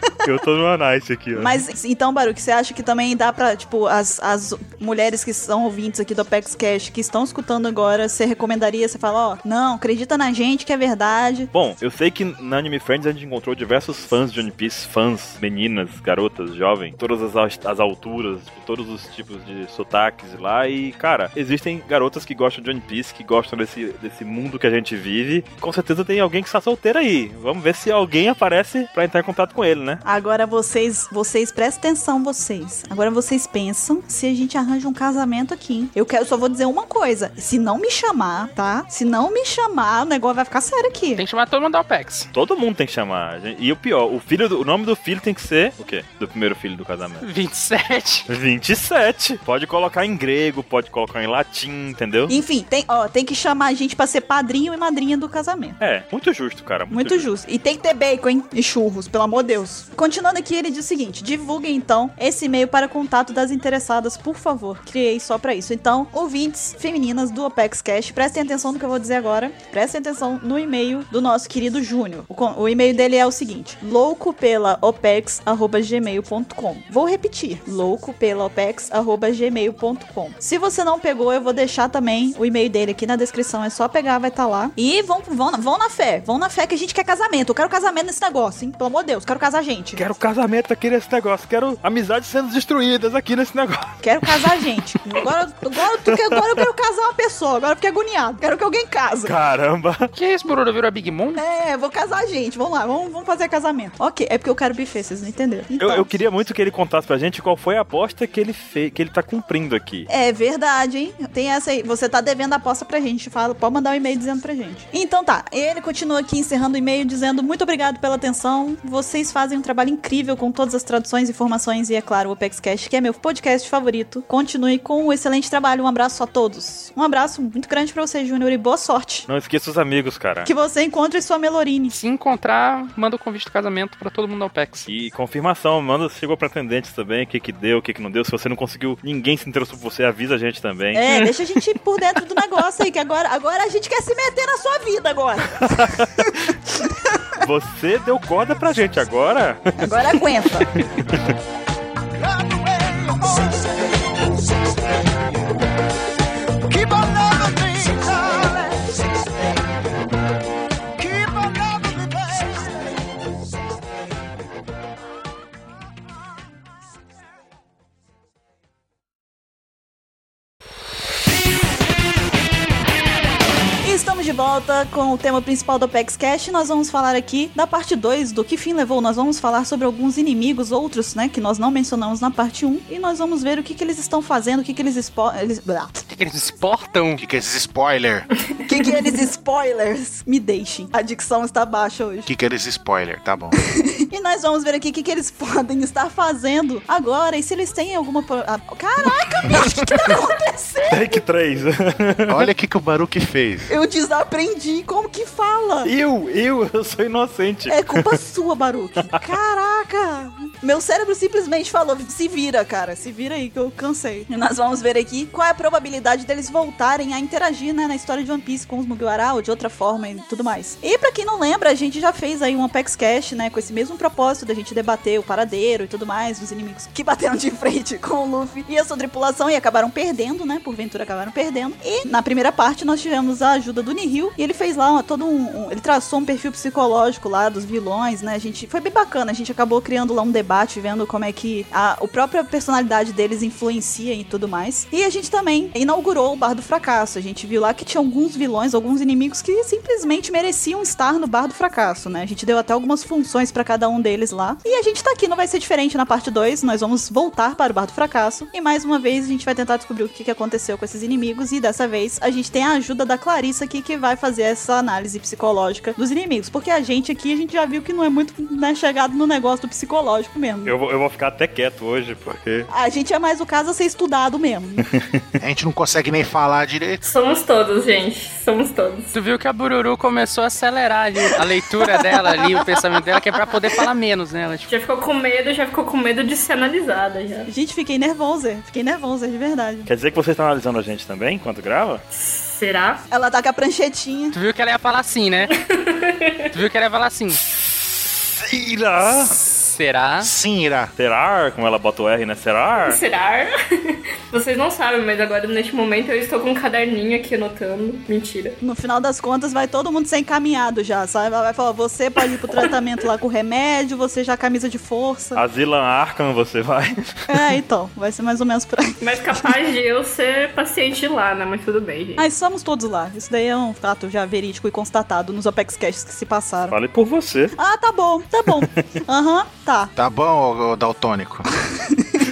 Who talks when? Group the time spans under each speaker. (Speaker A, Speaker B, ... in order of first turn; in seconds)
Speaker A: 0.2-1.6, 11.5-30.0, 42.3-47.2, 48.3-52.4, 55.8-57.3, 90.0-94.6, 96.1-96.4, 99.2-100.1, 105.8-110.1, 129.3-130.5, 134.9-141.1, 145.7-146.3, 147.4-149.9, 150.7-151.3, 200.9-202.4, 205.8-208.2, 270.6-272.7, 289.9-292.0, 298.4-299.4, 301.0-303.0, 315.4-317.0, 326.7-327.6
Speaker B: 1.4-11.5, 30.0-41.2, 52.3-55.8, 56.9-90.1, 94.0-99.4, 101.4-106.1, 110.1-129.3, 130.4-131.9, 140.9-146.0, 146.8-147.2, 149.8-150.7, 173.8-186.0, 188.7-192.3, 193.6-201.2, 203.7-205.9, 207.7-270.8, 272.7-274.8, 287.5-289.9, 293.1-294.4, 308.6-315.4, 317.3-319.1, 322.2-326.8, 327.6-329.9, 331.8-332.1
Speaker C: 41.2-42.3, 47.2-48.3, 100.1-101.4, 131.9-134.9, 186.1-187.2, 279.1-284.7, 294.3-295.5, 296.5-297.4, 299.4-300.3
Speaker D: 152.1-155.5, 156.6-159.5, 161.0-163.2
Speaker E: 187.2-188.3, 192.3-193.6, 202.3-203.8, 275.4-277.0, 300.2-300.9, 330.0-331.5
Speaker F: 277.0-279.1, 284.7-287.5, 292.1-293.0, 295.5-296.5, 302.8-308.6, 319.0-322.3